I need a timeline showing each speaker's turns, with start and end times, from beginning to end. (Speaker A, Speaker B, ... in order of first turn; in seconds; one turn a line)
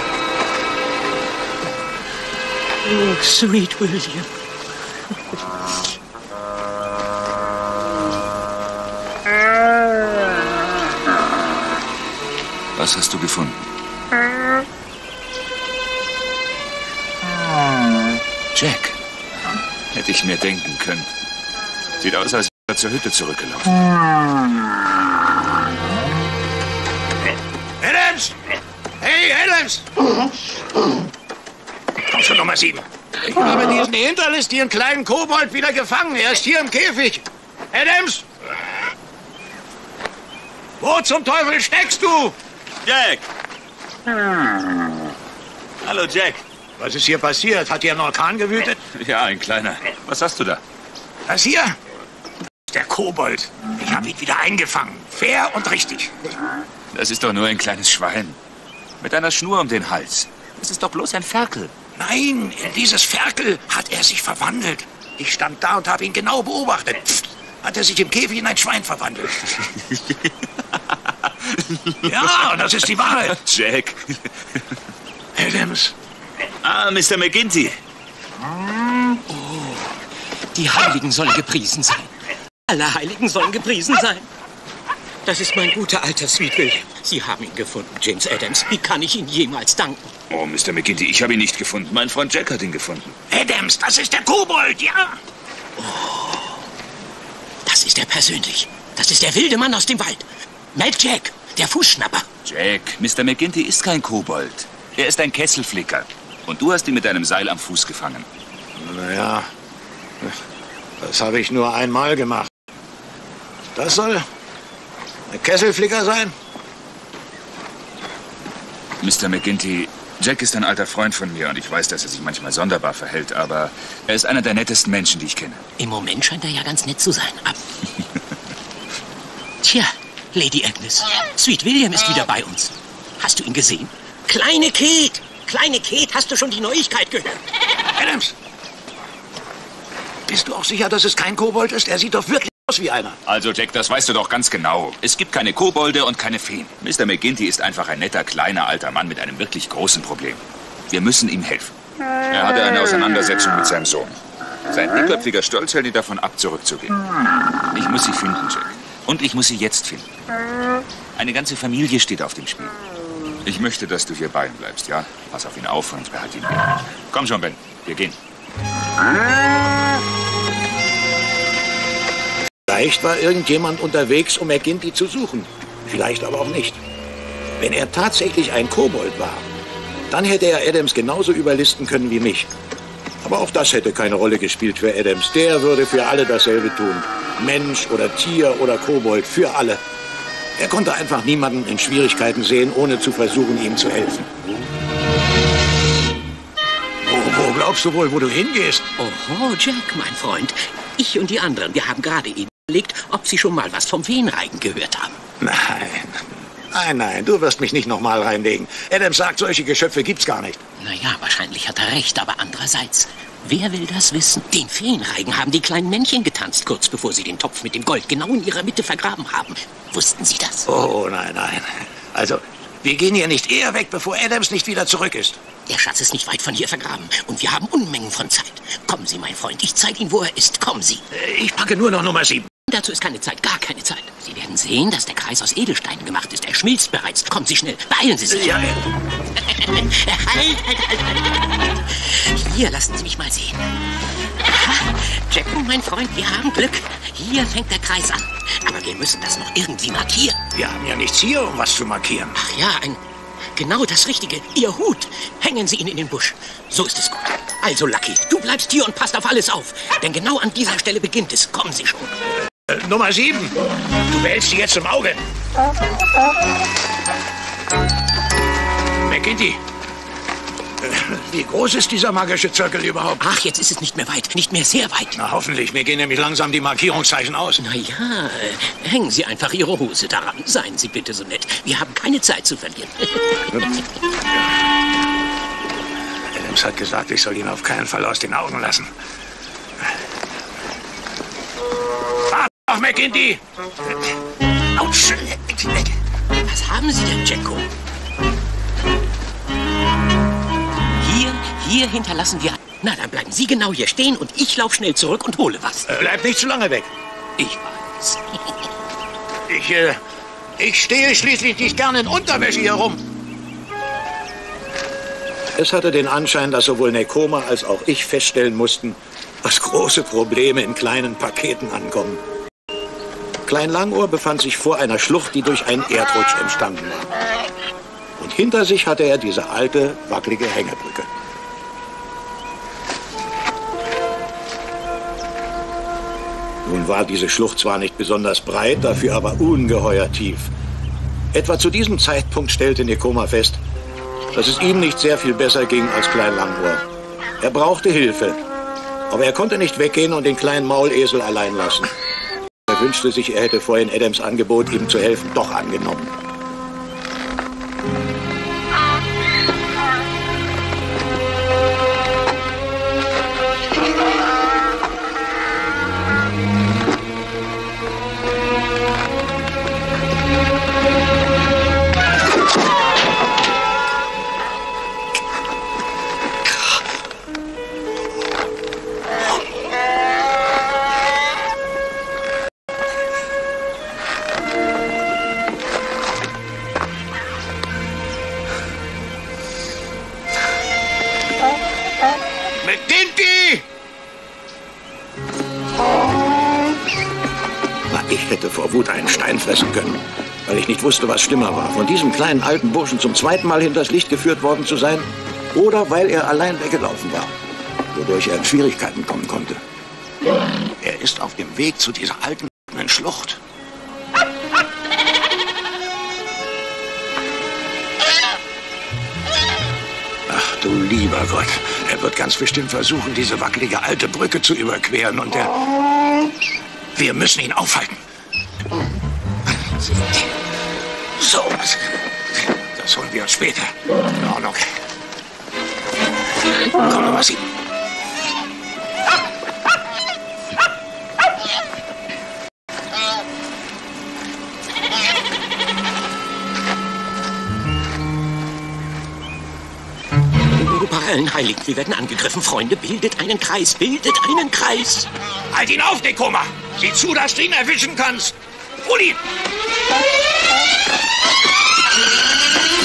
Speaker A: 2.8-4.3
Speaker B: 12.8-13.6
Speaker B: 18.5-19.0
Speaker B: 19.9-21.1
Speaker B: 22.0-23.8
Speaker C: 27.8-28.4
Speaker C: 29.0-29.9
Speaker C: 32.1-38.2
Speaker C: 40.8-42.4
Speaker B: 42.8-43.3
Speaker B: 45.8-46.4
Speaker C: 46.8-48.8
Speaker B: 48.9-50.6
Speaker C: 51.3-51.8
Speaker C: 52.7-56.4
Speaker B: 56.9-58.4
Speaker B: 59.0-61.7
Speaker C: 62.0-69.7
Speaker B: 69.9-72.5
Speaker C: 72.0-73.4
Speaker B: 73.2-74.7
Speaker C: 75.3-75.9
Speaker B: 76.6-77.8
Speaker A: 79.3-80.0
Speaker A: 80.5-82.1
Speaker A: 82.7-84.3
Speaker A: 85.2-90.1
Speaker B: 90.3-93.2
Speaker C: 93.3-95.2
Speaker A: 95.8-96.6
Speaker A: 97.7-102.3
Speaker B: 102.5-108.3
Speaker C: 108.8-109.5
Speaker C: 111.0-112.5
Speaker C: 113.8-114.3
Speaker C: 115.3-116.3
Speaker B: 119.0-125.6
Speaker A: 125.8-127.6
Speaker A: 129.6-137.4
Speaker C: 138.0-138.4
Speaker C: 140.3-143.2
Speaker B: 143.3-151.8
Speaker B: 152.3-157.0
Speaker B: 157.7-160.1
Speaker B: 161.2-162.7
Speaker B: 163.4-168.2
Speaker C: 172.7-176.8
Speaker C: 177.6-179.5
Speaker C: 180.1-182.5
Speaker C: 183.2-189.8
Speaker C: 190.6-194.3
Speaker C: 197.0-198.9
Speaker A: 199.0-205.2
Speaker C: 205.4-210.6
Speaker A: 210.8-220.7
Speaker C: 220.7-225.4
Speaker A: 225.7-231.0
Speaker C: 231.1-232.5
Speaker A: 232.7-238.6
Speaker C: 238.3-238.8
Speaker A: 239.4-243.6
Speaker A: 244.4-250.4
Speaker C: 250.5-252.4
Speaker A: 252.4-253.0
Speaker A: 253.6-262.1
Speaker C: 262.7-263.6
Speaker C: 264.1-265.2
Speaker C: 269.0-269.6
Speaker C: 270.8-273.2
Speaker A: 273.2-275.2
Speaker C: 275.2-277.6
Speaker A: 277.6-283.5
Speaker C: 286.3-288.9
Speaker C: 292.3-293.4
Speaker C: 294.8-295.9
Speaker A: 296.5-297.7
Speaker A: 301.0-306.0
Speaker C: 305.9-306.9
Speaker A: 307.4-308.4
Speaker C: 309.5-310.0
Speaker C: 310.6-313.0
Speaker C: 315.6-322.2
Speaker C: 323.5-327.1
Speaker C: 328.2-331.1
Speaker C: 336.6-340.5
Speaker C: 341.3-343.6
Speaker C: 344.3-346.8
Speaker C: 347.4-348.4
Speaker C: 349.1-351.9
Speaker C: 352.7-356.1
Speaker C: 392.6-393.6
Speaker C: 397.9-407.3
Speaker C: 407.9-409.6
Speaker C: 410.8-413.4
Speaker C: 420.3-425.6
Speaker C: 427.0-428.0
Speaker C: 431.2-432.0
Speaker C: 432.5-434.8
Speaker C: 436.7-437.4
Speaker A: 450.6-455.1
Speaker C: 455.5-459.2